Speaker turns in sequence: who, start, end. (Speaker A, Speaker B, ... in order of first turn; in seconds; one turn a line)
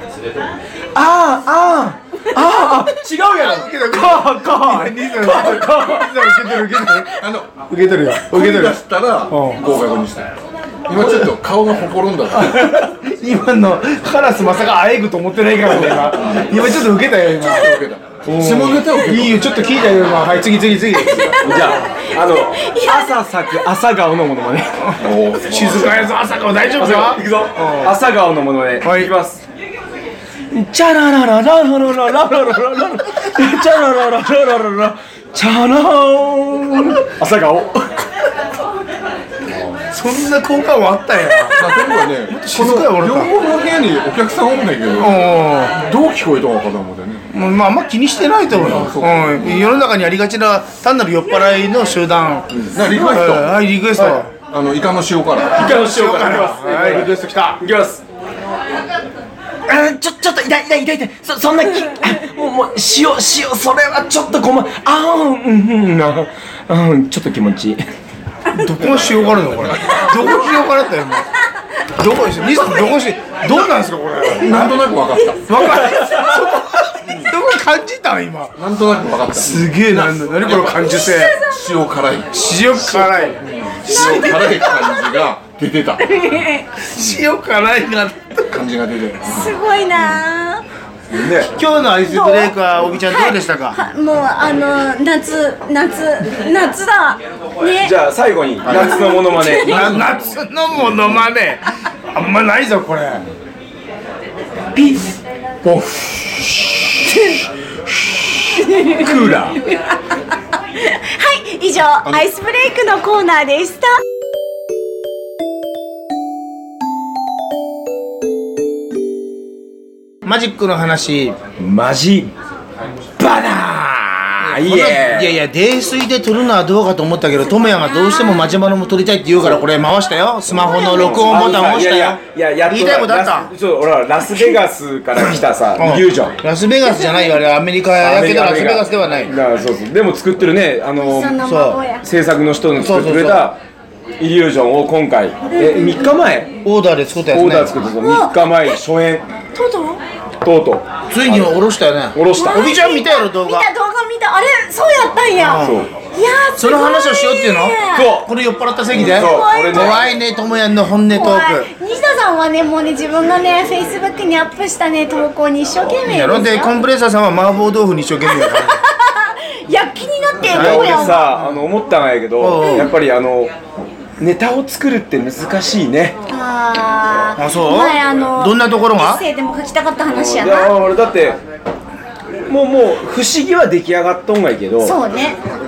Speaker A: 0.9-6.1
Speaker B: 3.3-9.6
Speaker C: 6.2-6.6
Speaker D: 7.0-7.5
Speaker D: 8.1-10.3
Speaker D: 10.9-12.7
Speaker B: 10.9-11.3
Speaker B: 12.3-21.8
Speaker D: 17.3-19.5
Speaker C: 21.1-23.5
Speaker A: 21.4-24.9
Speaker B: 24.8-28.0
Speaker D: 25.0-26.1
Speaker A: 26.8-29.4
Speaker B: 28.8-29.1
Speaker A: 30.5-38.1
Speaker B: 39.9-41.6
Speaker C: 41.5-42.1
Speaker D: 41.5-47.2
Speaker B: 42.2-43.3
Speaker B: 45.0-45.8
Speaker B: 47.3-54.3
Speaker D: 48.5-49.7
Speaker C: 51.4-51.6
Speaker A: 52.5-52.8
Speaker D: 52.7-53.6
Speaker D: 54.4-55.7
Speaker A: 55.5-58.0
Speaker B: 55.6-57.6
Speaker A: 59.6-67.8
Speaker B: 68.5-71.3
Speaker B: 71.9-78.6
Speaker D: 74.4-75.5
Speaker D: 77.0-77.3
Speaker D: 78.6-86.0
Speaker B: 79.3-81.3
Speaker C: 80.7-81.7
Speaker B: 82.3-84.7
Speaker C: 83.8-85.3
Speaker C: 86.0-86.7
Speaker B: 86.8-88.6
Speaker D: 88.5-90.0
Speaker C: 89.2-90.6
Speaker A: 91.1-91.5
Speaker B: 91.5-93.8
Speaker C: 92.0-97.9
Speaker A: 97.8-99.8
Speaker D: 98.6-101.3
Speaker C: 99.1-99.9
Speaker B: 99.6-103.2
Speaker A: 105.6-106.2
Speaker C: 108.6-109.8
Speaker A: 108.8-109.6
Speaker C: 110.8-114.0
Speaker B: 120.2-121.4
Speaker A: 121.6-122.3
Speaker B: 123.2-133.5
Speaker A: 124.2-125.4
Speaker C: 127.8-128.6
Speaker C: 130.6-131.6
Speaker A: 130.7-136.3
Speaker B: 135.2-139.3
Speaker C: 136.8-137.4
Speaker A: 138.0-141.4
Speaker C: 140.9-142.0
Speaker B: 141.4-141.8
Speaker A: 142.0-143.6
Speaker B: 142.8-143.5
Speaker A: 144.2-146.5
Speaker C: 145.5-146.2
Speaker B: 146.6-147.8
Speaker A: 147.3-149.2
Speaker C: 148.0-148.8
Speaker C: 149.5-150.0
Speaker A: 150.4-150.8
Speaker B: 151.1-153.7
Speaker A: 152.1-152.6
Speaker C: 152.3-158.1
Speaker B: 155.4-155.8
Speaker A: 155.6-155.9
Speaker B: 156.6-161.7
Speaker A: 157.9-158.3
Speaker A: 158.9-160.1
Speaker C: 159.0-160.0
Speaker C: 161.1-166.7
Speaker B: 166.0-168.8
Speaker C: 168.3-171.2
Speaker B: 170.4-171.7
Speaker A: 170.4-173.5
Speaker B: 172.4-172.9
Speaker C: 172.6-172.9
Speaker A: 174.2-176.2
Speaker C: 176.3-180.7
Speaker B: 177.3-179.2
Speaker A: 180.1-181.4
Speaker A: 182.4-184.9
Speaker C: 184.8-185.4